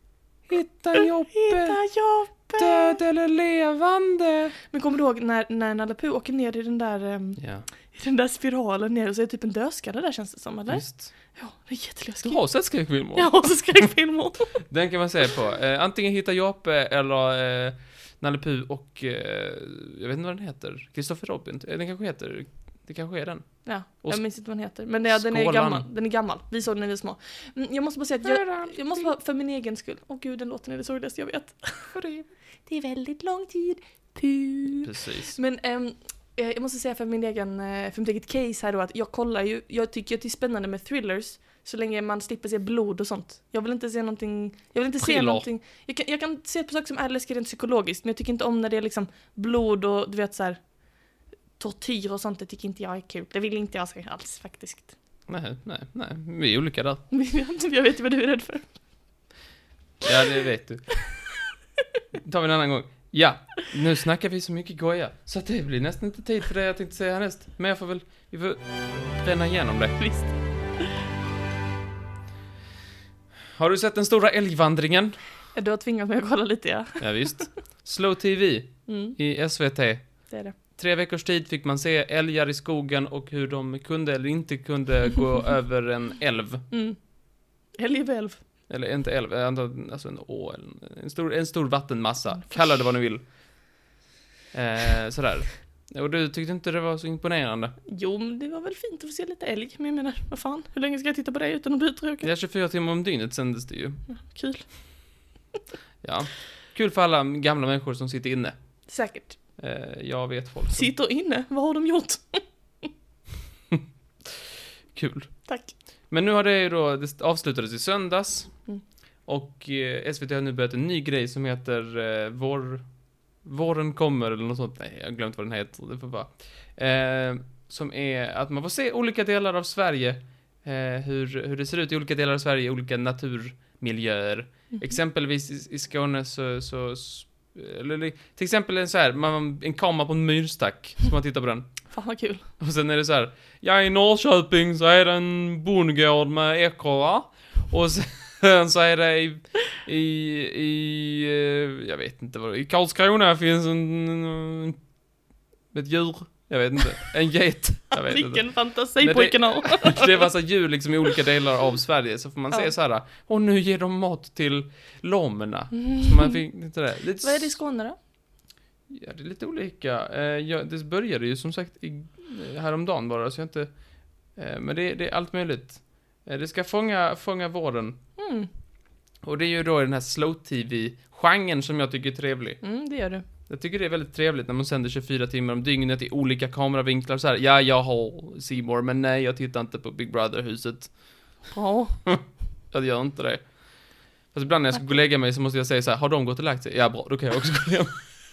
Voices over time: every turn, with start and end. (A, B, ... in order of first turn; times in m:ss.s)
0:00.5-0:01.8 A
0:00.9-0:03.0 B
0:02.6-0:04.5 A
0:04.7-0:07.4 B
0:07.4-0:07.6 A
0:07.9-0:14.5 B
0:10.7-0:11.1 A
0:12.2-0:13.5 A
0:14.6-0:24.2 A
0:23.6-0:32.1 B
0:25.1-0:25.8 A
0:28.2-0:29.1 A
0:32.6-0:50.6 B
0:34.8-0:35.4 A
0:45.0-0:45.4 A
0:51.6-0:54.9 B
0:55.3-0:57.0 A
0:57.1-0:58.7 B
1:00.0-1:01.0 A
1:02.2-1:10.0 A
1:10.0-1:10.3 B
1:13.6-1:15.2 A
1:15.5-1:17.5 B
1:17.0-1:20.1 A
1:18.9-1:19.2 B
1:20.3-1:20.5 B
1:20.8-1:26.6 A
1:26.7-1:27.0 B
1:27.8-1:28.4 B
1:28.7-1:33.2 A
1:34.5-1:37.7 A
1:37.9-1:42.3 B
1:42.2-1:44.0 A
1:44.1-1:44.7 B
1:46.0-1:48.5 A
1:48.9-1:49.4 B
1:49.6-1:50.9 A
1:50.7-1:52.4 B
1:54.9-1:55.3 A
1:55.5-1:55.7 B
1:56.1-1:58.5 A
1:59.2-2:02.8 A
2:03.4-2:21.7 A
2:21.9-2:22.5 B
2:22.6-2:34.8 A
2:35.7-2:47.6 A
2:37.9-2:40.3 B
2:45.8-2:46.4 B
2:47.2-2:48.0 B
2:48.9-2:53.7 A
2:54.4-2:58.0 A
2:58.2-2:58.5 B
2:59.2-3:02.6 A
3:02.6-3:03.2 B
3:03.5-3:10.9 A
3:11.5-3:12.0 B
3:12.0-3:13.6 A
3:14.3-3:18.1 A